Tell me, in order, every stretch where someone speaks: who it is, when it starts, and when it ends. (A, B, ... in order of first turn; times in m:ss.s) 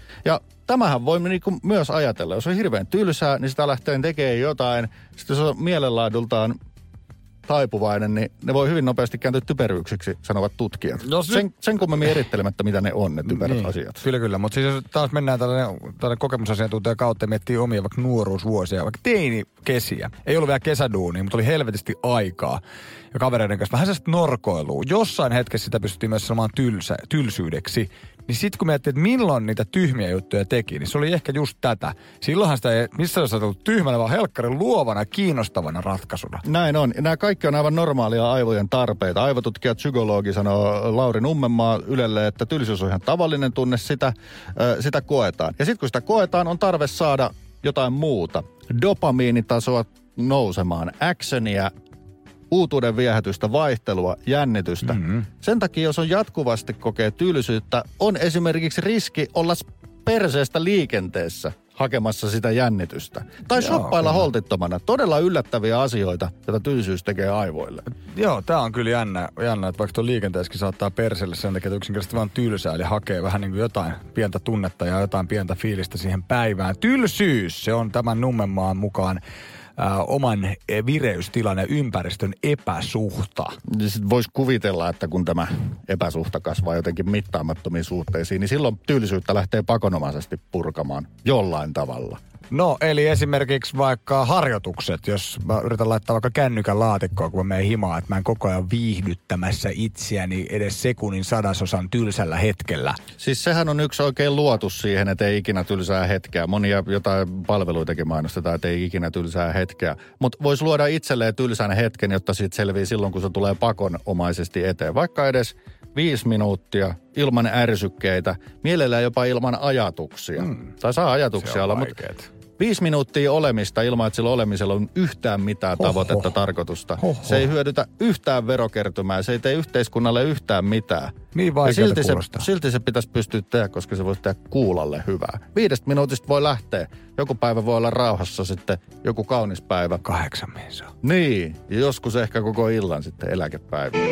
0:00.2-0:06.6 A
0:07.4-0:14.0 A
0:11.0-0:11.4 B
0:13.3-0:22.6 B
0:23.1-0:36.4 B
0:36.4-0:51.7 A
0:52.5-1:07.8 A
1:03.6-1:04.2 B
1:08.0-1:19.2 B
1:19.8-1:23.6 B
1:23.7-1:32.2 A
1:32.5-1:43.0 B
1:43.2-2:01.9 A
2:00.4-2:00.7 B
2:01.4-2:02.3 B
2:02.6-2:20.0 A
2:05.8-2:06.3 B
2:07.0-2:07.4 B
2:11.3-2:12.4 B
2:20.0-2:20.9 B
2:21.0-2:24.0 A